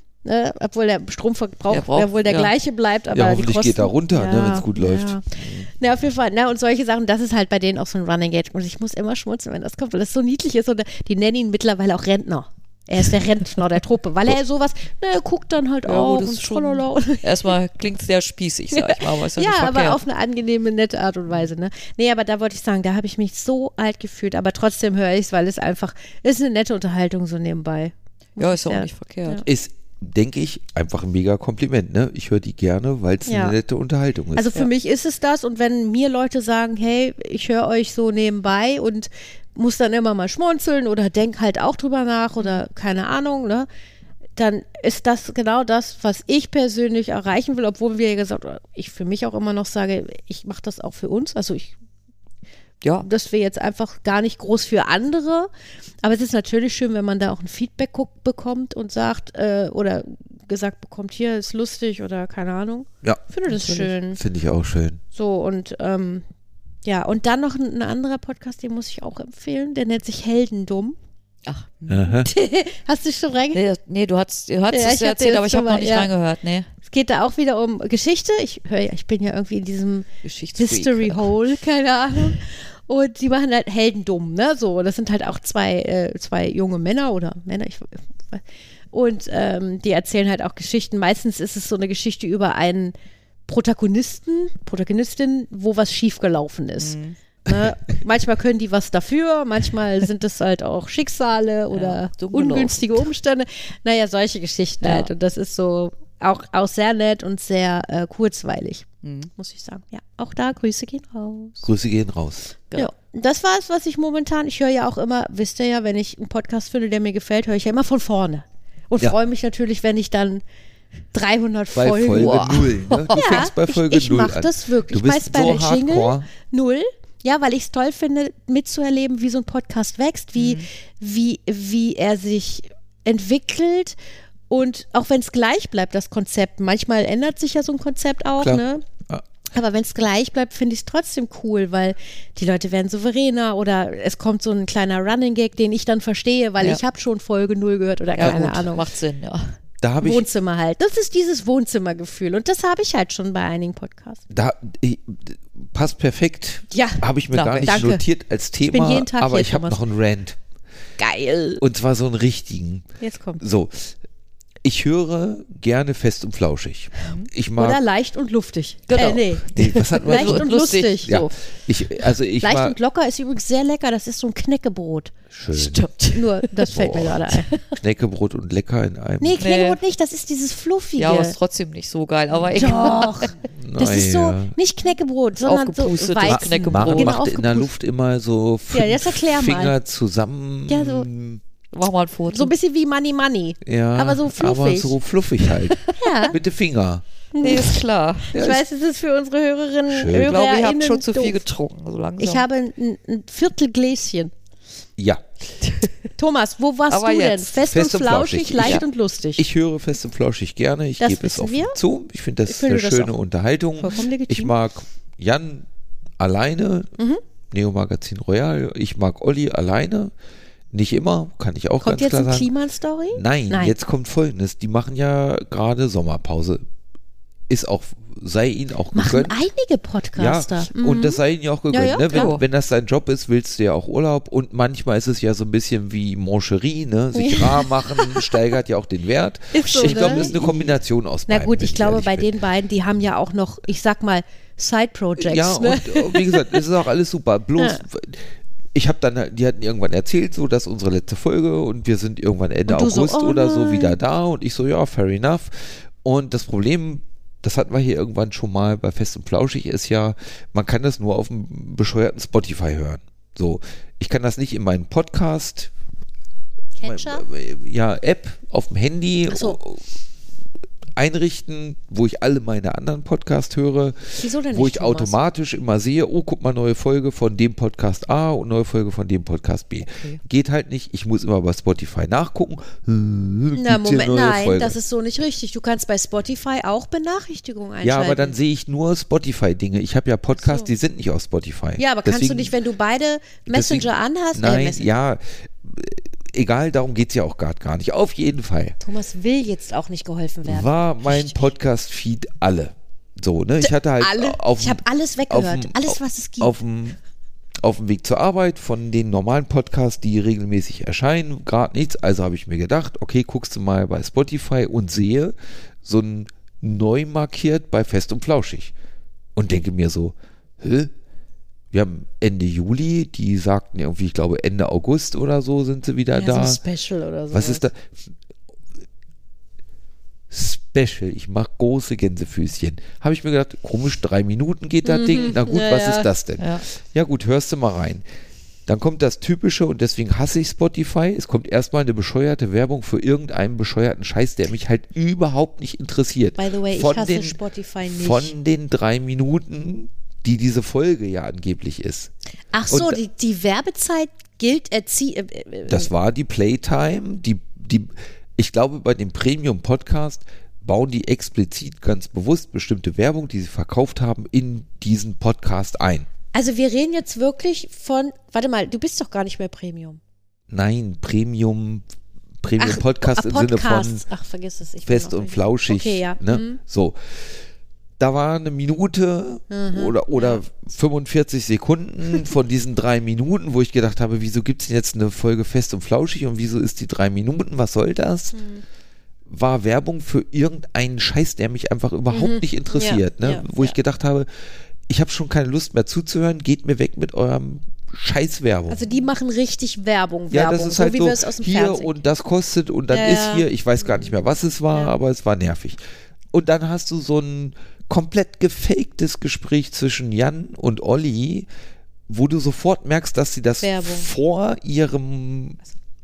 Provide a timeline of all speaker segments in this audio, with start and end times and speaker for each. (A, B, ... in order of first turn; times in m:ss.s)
0:00.2-0:17.5 A
0:01.7-0:02.5 B
0:03.1-0:05.7 C
0:15.9-0:20.0 B
0:18.7-0:29.4 A
0:28.4-0:29.4 B
0:29.4-0:34.5 C
0:33.3-0:33.6 A
0:34.3-0:43.7 A
0:44.4-0:51.7 A
0:53.0-0:55.5 A
0:56.0-1:04.2 A
1:03.5-1:03.9 B
1:04.2-1:05.0 C
1:05.1-1:06.2 A
1:06.8-1:11.0 A
1:11.4-1:12.0 B
1:11.9-1:12.3 C
1:12.2-1:13.6 A
1:13.5-1:16.7 B
1:14.7-1:16.1 A
1:16.8-1:32.9 A
1:20.2-1:21.3 B
1:33.5-1:51.7 A
1:36.8-1:37.2 B
1:41.7-1:43.0 B
1:44.8-1:45.1 B
1:49.0-1:49.3 B
1:51.6-1:52.5 C
1:52.7-2:00.4 A
2:01.1-2:02.6 A
2:01.7-2:06.3 C
2:02.1-2:03.2 B
2:03.1-2:14.0 A
2:10.4-2:10.6 B
2:14.5-2:18.8 A
2:18.4-2:19.2 C
2:19.5-2:28.8 A
2:28.1-2:29.5 B
2:28.2-2:28.7 C
2:29.8-2:30.3 C
2:30.0-2:34.2 A
2:34.3-2:40.4 C
2:36.7-2:37.0 A
2:37.3-2:37.8 B
2:37.6-2:38.0 A
2:38.7-2:39.8 A
2:41.0-2:41.6 A
2:41.6-2:42.8 C
2:43.0-2:43.4 A
2:43.4-2:44.0 C
2:44.6-2:47.8 C
2:47.6-2:51.3 A
2:48.9-2:51.0 B
2:49.0-2:52.8 C
2:52.4-2:55.1 A
2:55.3-2:55.8 C
2:55.5-2:56.7 B
2:56.1-2:57.6 A
2:56.7-2:57.2 C
2:57.3-2:57.6 B
2:57.8-2:59.4 C
2:59.2-3:01.3 A
2:59.4-2:59.8 B
3:01.0-3:03.3 B
3:02.5-3:07.7 A
3:03.4-3:04.5 C
3:05.4-3:07.1 B
3:06.2-3:11.4 C
3:08.7-3:09.7 A
3:10.7-3:11.1 A
3:11.7-3:12.5 B
3:12.3-3:15.0 A
3:13.6-3:17.0 C
3:15.7-3:16.1 B
3:15.9-3:16.4 A
3:17.3-3:21.4 A
3:17.4-3:18.3 B
3:18.3-3:18.6 C
3:19.9-3:20.4 C
3:20.1-3:22.4 B
3:22.2-3:24.3 A
3:25.0-3:25.2 C
3:25.6-3:25.9 B
3:26.2-3:29.4 A
3:26.9-3:27.5 B
3:27.6-3:28.8 C
3:29.4-3:35.7 C
3:31.0-3:31.8 A
3:32.4-3:33.2 A
3:33.8-3:34.5 A
3:36.2-3:36.9 C
3:37.5-3:40.1 C
3:40.7-3:42.5 C
3:41.8-3:43.8 A
3:43.1-3:46.6 C
3:47.5-3:49.3 C
3:48.9-3:51.2 A
3:50.2-4:02.3 C
3:51.7-3:52.4 A
3:52.1-3:52.4 B
3:57.1-3:58.3 A
3:59.5-4:00.4 A
3:59.7-4:00.6 B
4:01.3-4:06.6 A
4:05.2-4:25.7 C
4:07.6-4:07.8 A
4:12.7-4:14.0 A
4:26.8-4:27.2 A
4:26.8-4:29.8 C
4:29.3-4:29.6 A
4:31.0-4:44.8 C
4:34.2-4:35.2 A
4:43.5-4:48.3 A
4:47.8-4:52.5 C
4:50.4-4:50.7 A
4:51.8-4:54.9 A
4:53.5-4:58.8 C
4:58.8-5:01.4 A
5:00.4-5:07.0 C
5:03.6-5:06.5 A
5:07.6-5:18.7 C
5:19.4-5:20.9 C
5:21.7-5:26.6 C
5:26.1-5:27.6 A
5:27.3-5:27.9 C
5:30.3-5:38.0 C
5:34.8-5:36.1 A
5:38.7-5:52.1 C
5:46.4-5:48.3 A
5:52.5-5:55.9 A
5:52.7-5:53.0 C
5:55.7-6:06.1 C
6:06.3-6:10.0 A
6:10.5-6:11.8 C
6:12.4-6:14.0 C
6:12.6-6:16.6 A
6:14.8-6:17.0 C
6:18.0-6:28.4 C
6:19.5-6:20.4 A
6:28.3-6:28.6 A
6:29.3-6:34.3 C
6:32.1-6:33.7 A
6:34.9-6:38.8 C
6:38.7-6:42.0 A
6:40.3-6:45.8 C
6:42.9-6:43.4 A
6:46.3-6:51.5 C
6:52.1-6:55.6 C
6:53.6-6:54.1 A